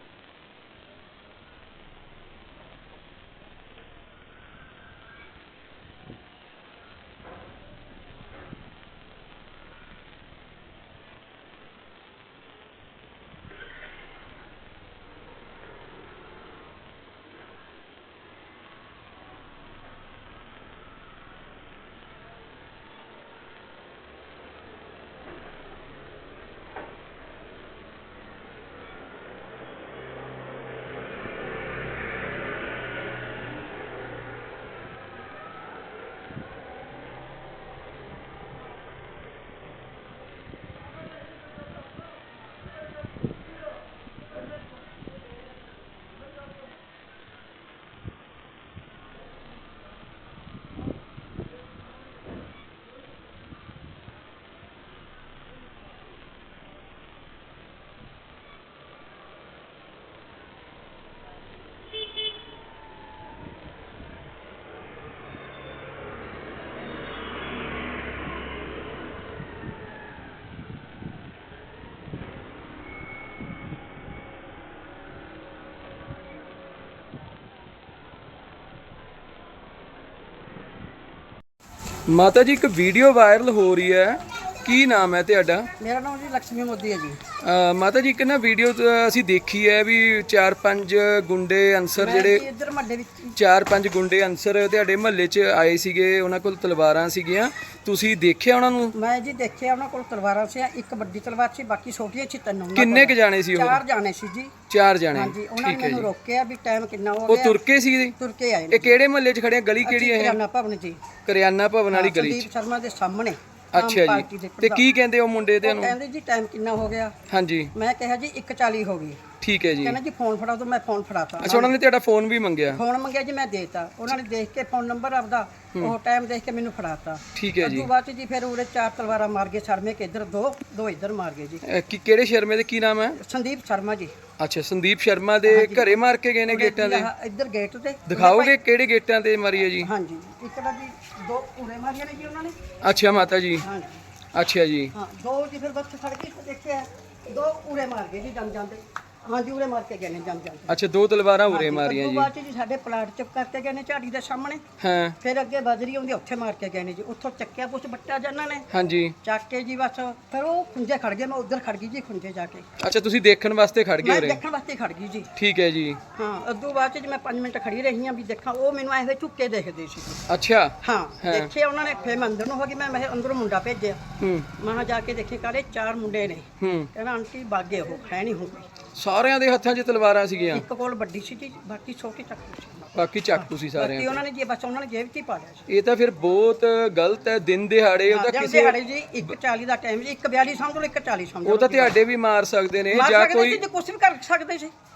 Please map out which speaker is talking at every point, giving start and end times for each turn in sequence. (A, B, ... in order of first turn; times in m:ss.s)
1:22.1-1:25.7 A
1:25.8-1:27.2 B
1:27.4-1:32.4 A
1:32.0-1:33.4 B
1:33.4-1:38.9 A
1:38.9-1:44.5 B
1:42.7-1:43.8 A
1:44.7-1:46.1 A
1:45.1-1:47.6 B
1:47.3-1:48.2 A
1:48.2-1:48.9 B
1:48.7-1:50.4 A
1:49.8-1:51.0 B
1:51.2-1:52.5 A
1:51.9-1:54.8 B
1:53.7-1:56.0 A
1:55.6-1:57.2 B
1:57.3-1:57.7 A
1:57.7-1:59.2 B
1:59.4-2:00.0 A
1:59.8-2:01.8 B
2:01.4-2:02.8 A
2:02.7-2:11.6 B
2:07.3-2:07.9 A
2:11.6-2:13.2 A
2:13.2-2:14.1 B
2:14.4-2:17.1 A
2:15.4-2:15.9 B
2:16.5-2:18.6 B
2:18.0-2:19.9 A
2:19.8-2:22.6 B
2:22.8-2:23.6 A
2:23.6-2:24.0 B
2:24.3-2:24.9 A
2:24.9-2:30.8 B
2:30.7-2:32.3 A
2:31.5-2:34.6 B
2:34.8-2:35.2 A
2:35.2-2:38.6 B
2:38.7-2:39.2 A
2:39.2-2:42.6 B
2:42.8-2:44.4 A
2:44.0-2:45.3 B
2:45.4-2:46.0 A
2:46.1-2:50.2 B
2:50.3-2:51.5 A
2:50.8-2:54.0 B
2:54.2-2:54.5 A
2:54.6-2:58.6 B
2:56.6-2:56.9 A
2:58.9-3:00.6 A
3:00.5-3:05.6 B
3:02.9-3:04.2 A
3:05.7-3:09.3 A
3:08.1-3:12.0 B
3:11.4-3:13.6 A
3:12.9-3:14.7 B